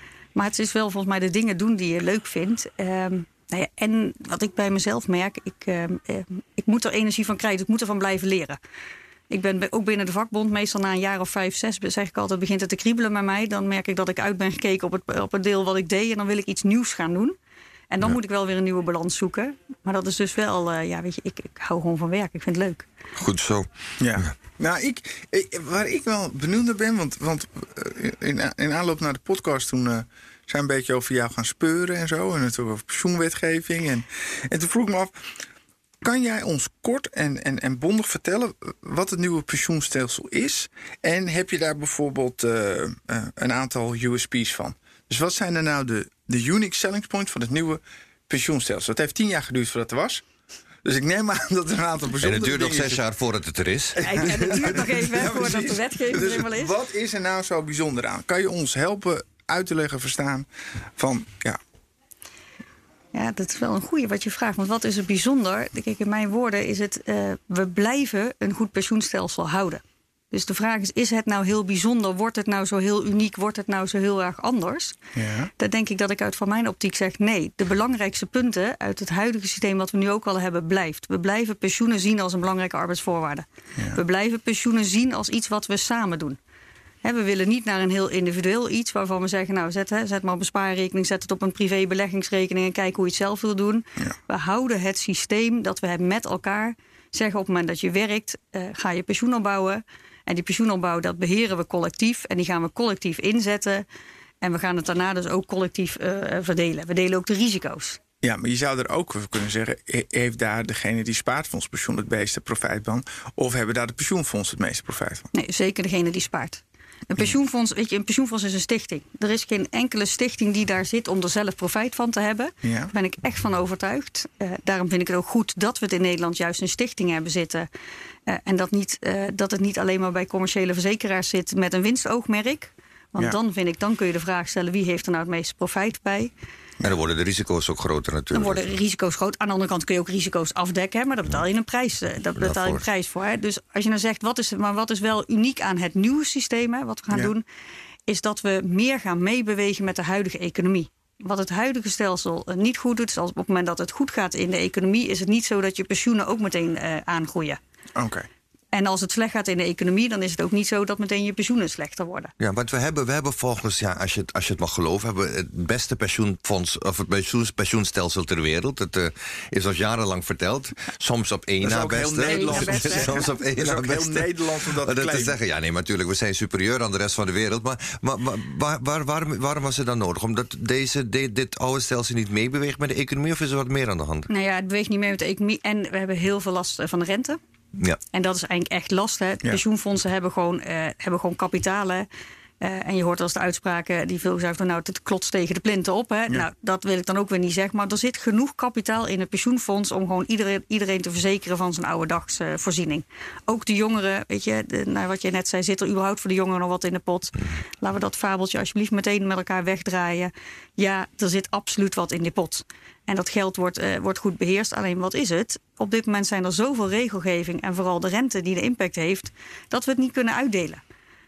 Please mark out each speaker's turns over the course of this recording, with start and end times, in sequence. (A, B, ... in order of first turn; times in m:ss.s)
0:00.4-0:08.6 A
0:09.3-0:17.4 A
0:17.9-0:22.9 A
0:23.2-0:24.3 B
0:24.0-0:35.2 C
0:36.0-0:50.2 C
0:50.8-0:53.0 C
0:52.2-0:54.4 B
0:54.0-1:00.5 C
0:54.0-0:56.8 A
1:01.0-1:01.6 C
1:03.1-1:15.0 A
1:15.2-1:15.5 C
1:15.6-1:26.4 A
1:27.0-1:43.9 A
1:44.4-1:48.0 A
1:48.2-1:55.3 C
1:55.3-2:07.7 A
2:02.6-2:02.9 C
2:08.3-2:16.3 A
2:16.8-2:18.7 B
2:18.3-2:27.4 A
2:22.4-2:22.8 B
2:28.1-2:37.6 A
2:38.0-2:38.3 C
2:38.7-2:42.3 A
2:42.4-3:04.3 B
2:51.6-2:55.4 C
2:52.2-2:53.3 A
3:04.3-3:07.4 A
3:08.1-3:12.1 A
3:12.6-3:40.8 A